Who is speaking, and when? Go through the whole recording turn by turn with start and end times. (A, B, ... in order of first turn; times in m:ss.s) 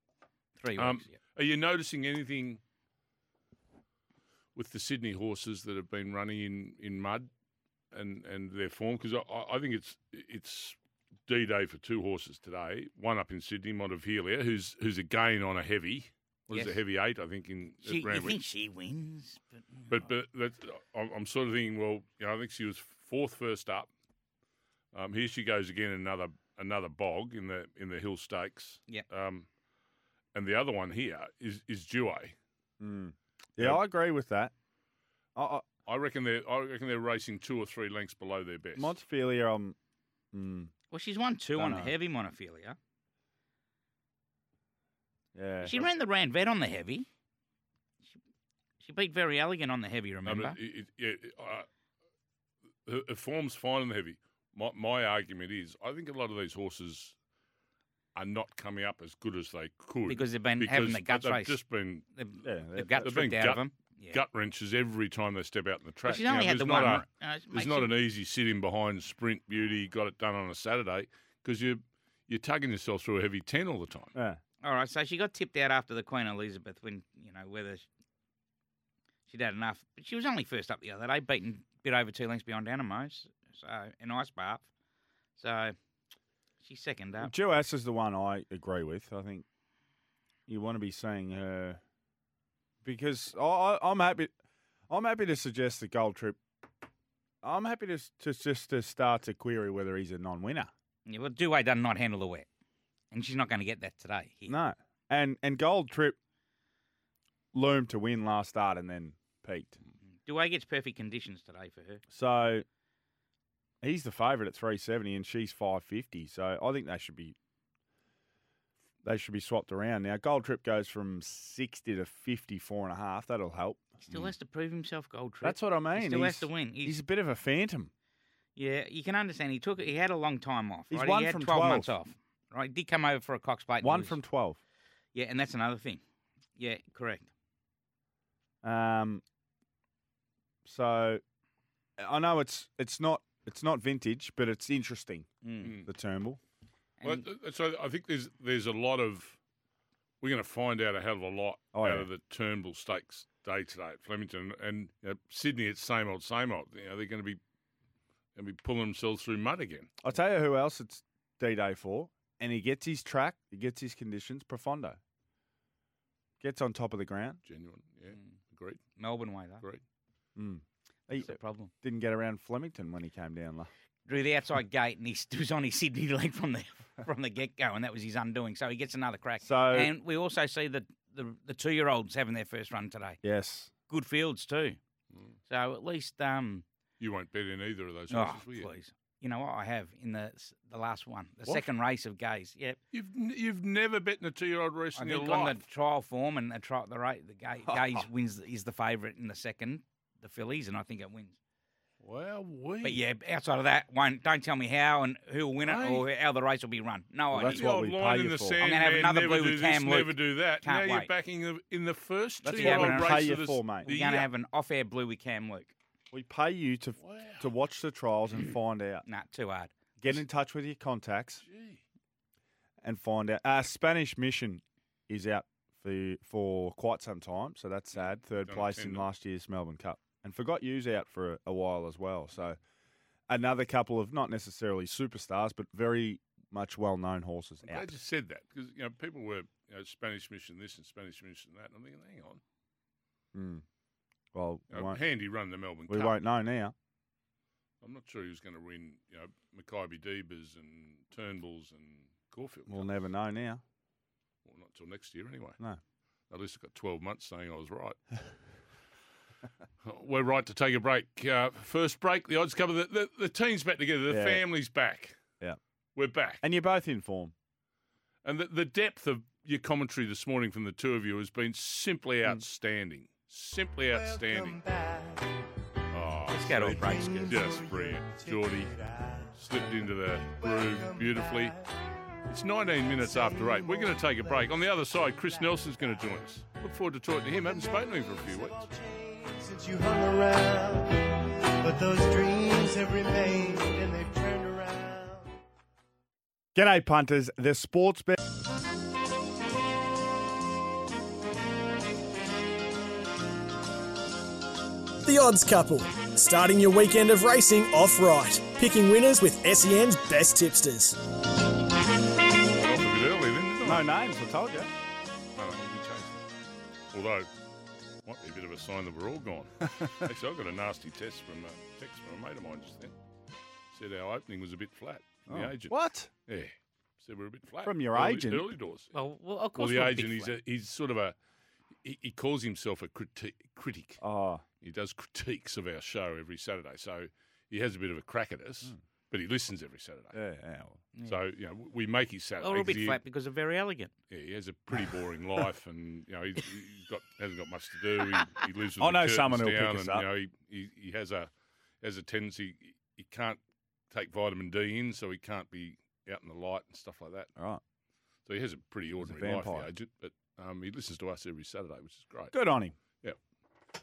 0:00.6-0:01.2 A
0:00.8-0:02.6 B
0:04.5-0:07.3 B
0:07.9-0:18.4 B
0:16.5-0:16.8 A
0:17.8-0:20.0 A
0:19.9-0:23.9 B
0:24.9-0:29.5 B
0:30.3-0:32.3 B
0:32.8-0:34.5 C
0:35.4-0:35.6 C
0:35.8-0:38.9 B
0:38.8-0:39.8 C
0:40.3-0:40.7 C
0:40.9-0:42.8 A
0:41.6-0:41.9 C
0:45.3-0:45.8 C
0:45.6-0:47.1 A
0:48.8-0:50.6 A
0:50.2-0:51.7 B
0:52.8-0:57.1 B
0:58.1-1:02.0 B
1:00.1-1:01.6 A
1:02.2-1:04.2 A
1:02.4-1:03.1 C
1:03.0-1:14.1 B
1:06.0-1:07.9 A
1:14.1-1:14.4 C
1:14.6-1:17.8 A
1:19.3-1:24.6 A
1:25.4-1:25.8 A
1:26.6-1:27.3 A
1:27.2-1:29.4 C
1:30.5-1:31.8 C
1:32.8-1:34.3 C
1:34.9-1:36.4 C
1:37.4-1:40.7 C
1:41.0-1:42.4 A
1:43.1-1:44.6 A
1:44.5-1:46.2 C
1:47.5-1:49.8 C
1:50.2-1:52.0 A
1:52.1-1:52.6 C
1:53.8-1:57.4 C
1:59.0-2:03.8 C
2:04.0-2:07.0 A
2:05.4-2:07.9 C
2:08.6-2:14.2 A
2:10.9-2:11.9 C
2:13.8-2:14.6 C
2:15.1-2:16.0 A
2:16.6-2:17.3 A
2:18.6-2:19.2 C
2:20.6-2:21.2 C
2:22.0-2:26.4 C
2:25.4-2:25.8 A
2:25.6-2:25.9 B
2:27.0-2:27.2 A
2:27.0-2:29.4 B
2:30.2-2:37.4 B
2:31.7-2:32.1 C
2:38.3-2:39.9 B
2:40.0-2:45.0 C
2:46.4-2:47.4 C
2:47.4-2:48.8 B
2:49.0-2:49.6 A
2:50.4-2:53.7 C
2:51.1-2:51.7 A
2:54.1-3:03.2 A
2:59.4-2:59.9 C
3:03.2-3:03.7 C
3:03.9-3:04.8 A
3:05.5-3:06.6 A
3:07.0-3:08.7 B
3:08.1-3:12.8 A
3:12.9-3:15.6 B
3:15.0-3:21.4 A
3:22.0-3:23.0 B
3:22.8-3:27.7 A
3:25.6-3:26.0 B
3:27.3-3:28.6 C
3:27.4-3:34.3 B
3:28.6-3:31.1 A
3:32.4-3:33.2 A
3:32.5-3:33.9 C
3:33.8-3:35.7 A
3:36.1-3:39.0 C
3:37.0-3:37.5 B
3:39.0-3:39.7 A
3:40.0-3:41.4 C
3:41.4-3:41.8 B
3:42.8-3:52.6 C
3:48.4-3:49.1 B
3:53.3-3:57.9 C
3:57.6-4:02.4 B
4:03.3-4:03.6 C
4:04.3-4:05.0 C
4:04.7-4:06.2 B
4:05.9-4:06.7 C
4:07.8-4:12.9 B
4:12.7-4:13.6 C
4:14.4-4:15.6 B
4:16.3-4:18.0 B
4:19.8-4:25.2 B
4:24.1-4:24.4 C
4:26.0-4:26.4 B
4:26.4-4:27.3 C
4:28.2-4:34.6 B
4:33.9-4:35.4 D
4:35.9-4:38.7 B
4:36.3-4:37.4 A
4:36.5-4:41.7 D
4:39.3-4:41.5 B
4:42.3-4:48.7 B
4:42.9-4:46.0 D
4:47.3-4:55.3 D
4:56.5-4:58.2 C
5:05.0-5:11.0 E
5:12.5-5:13.8 B
5:13.6-5:14.7 C
5:15.4-5:16.2 B
5:16.9-5:17.3 B
5:18.0-5:22.9 B
5:23.7-5:28.9 B
5:25.3-5:26.1 C
5:27.6-5:28.5 C
5:28.9-5:30.3 A
5:29.6-5:31.2 B
5:31.8-5:34.0 B
5:34.0-5:34.4 C
5:34.6-5:40.2 B
5:40.1-5:40.8 C
5:41.0-5:43.0 B
5:42.4-5:43.9 A
5:44.1-5:51.3 B
5:48.8-5:50.0 C
5:51.8-5:53.4 B
5:53.9-5:57.3 B
5:58.3-6:02.4 B
5:59.0-5:59.7 C
6:02.3-6:02.7 C